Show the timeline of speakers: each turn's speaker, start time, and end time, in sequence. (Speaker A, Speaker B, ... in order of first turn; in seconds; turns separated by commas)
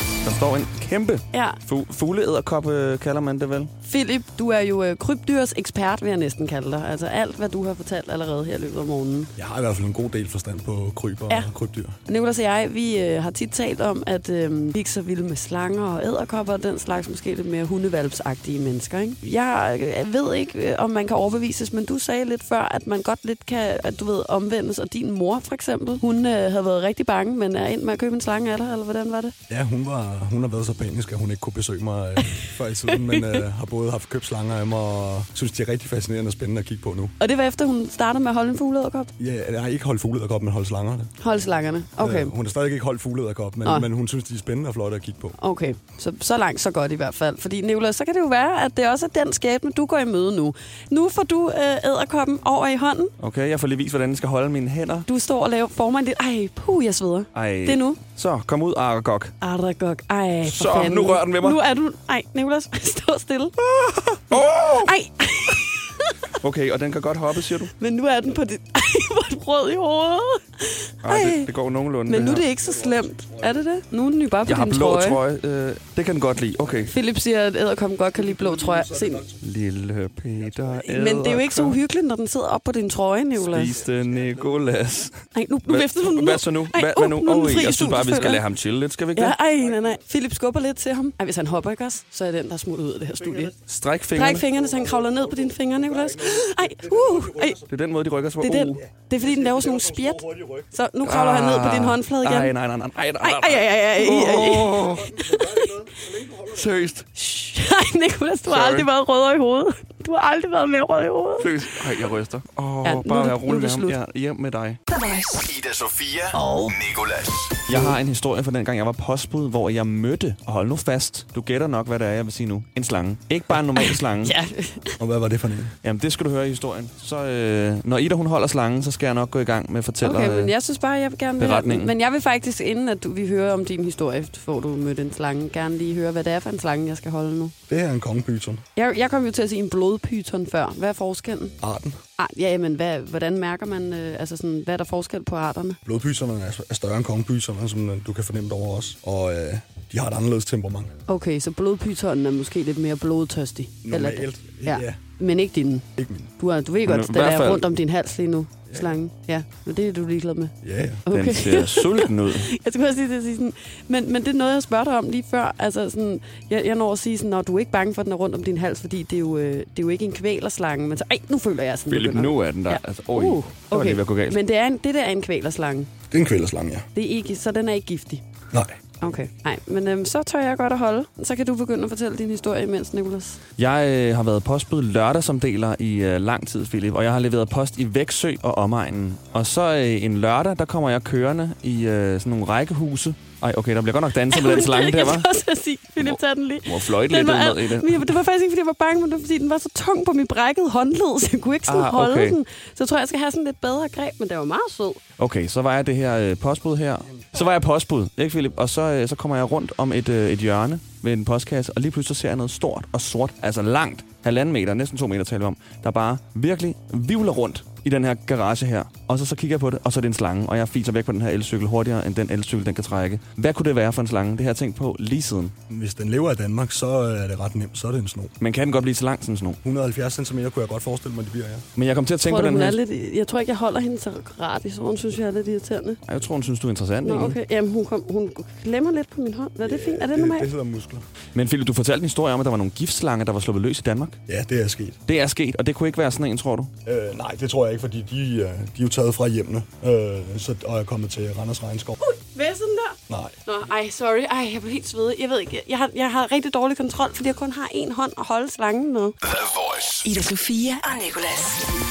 Speaker A: 0.2-3.7, Speaker B: 1.3-1.6, Speaker B: 3.8-9.3, Speaker C: 9.3-12.0, Speaker B: 12.1-29.3, Speaker C: 29.5-37.1, Speaker B: 32.2-33.4, Speaker B: 37.2-39.1, Speaker C: 39.2-41.1, Speaker B: 41.2-42.3, Speaker C: 42.0-45.4, Speaker B: 43.6-43.9, Speaker B: 45.4-53.1, Speaker A: 53.2-55.0, Speaker B: 55.0-58.0, Speaker A: 57.3-59.3, Speaker B: 59.4-63.5, Speaker A: 60.4-61.6, Speaker A: 63.6-64.9, Speaker B: 64.3-66.3, Speaker A: 66.4-67.7, Speaker B: 67.8-71.5, Speaker A: 71.0-72.5, Speaker B: 72.0-75.2, Speaker C: 72.6-73.6, Speaker A: 74.4-76.9, Speaker B: 76.9-79.3, Speaker C: 78.2-79.4, Speaker A: 79.4-81.8, Speaker B: 80.8-83.8, Speaker A: 83.3-89.3, Speaker B: 85.3-88.4, Speaker B: 89.1-93.5, Speaker C: 93.2-93.5, Speaker A: 93.6-94.5, Speaker B: 94.1-97.6, Speaker C: 94.5-97.7, Speaker A: 97.7-98.8, Speaker B: 98.4-102.5, Speaker C: 98.8-100.7, Speaker A: 101.0-105.1, Speaker B: 103.2-105.8, Speaker C: 104.7-106.9, Speaker A: 106.5-107.0, Speaker B: 107.1-111.7, Speaker A: 108.5-108.9, Speaker A: 111.4-114.8, Speaker B: 112.8-114.0, Speaker D: 114.9-115.4, Speaker E: 115.4-117.4, Speaker D: 116.3-116.8, Speaker A: 117.7-124.3, Speaker B: 123.8-125.0, Speaker C: 125.0-125.7, Speaker A: 125.8-130.5, Speaker B: 130.0-137.5, Speaker A: 131.4-131.9, Speaker C: 137.7-138.6, Speaker B: 138.8-141.6, Speaker C: 141.6-142.0, Speaker B: 142.2-145.8, Speaker C: 145.8-150.9, Speaker B: 151.1-155.9, Speaker C: 153.8-155.0, Speaker C: 156.0-156.3, Speaker B: 156.4-160.5, Speaker A: 156.8-157.6, Speaker C: 160.6-161.0, Speaker B: 161.1-175.9, Speaker A: 161.1-162.5, Speaker A: 171.9-174.4, Speaker C: 176.1-176.9, Speaker B: 176.9-178.2, Speaker C: 178.5-178.8, Speaker B: 179.0-183.4, Speaker A: 183.6-195.3, Speaker B: 194.3-205.0, Speaker A: 196.0-198.2, Speaker A: 201.7-202.4, Speaker A: 205.2-225.5, Speaker C: 225.7-228.3, Speaker A: 228.4-229.6, Speaker C: 229.6-231.7, Speaker A: 231.8-232.8, Speaker B: 232.2-236.0, Speaker A: 236.1-237.4, Speaker B: 237.0-240.5, Speaker C: 239.6-241.1, Speaker A: 241.3-244.2, Speaker C: 244.3-245.0, Speaker A: 245.1-246.7, Speaker C: 246.8-252.0, Speaker B: 252.0-259.1, Speaker C: 253.1-253.3, Speaker E: 259.2-260.0, Speaker D: 260.0-261.6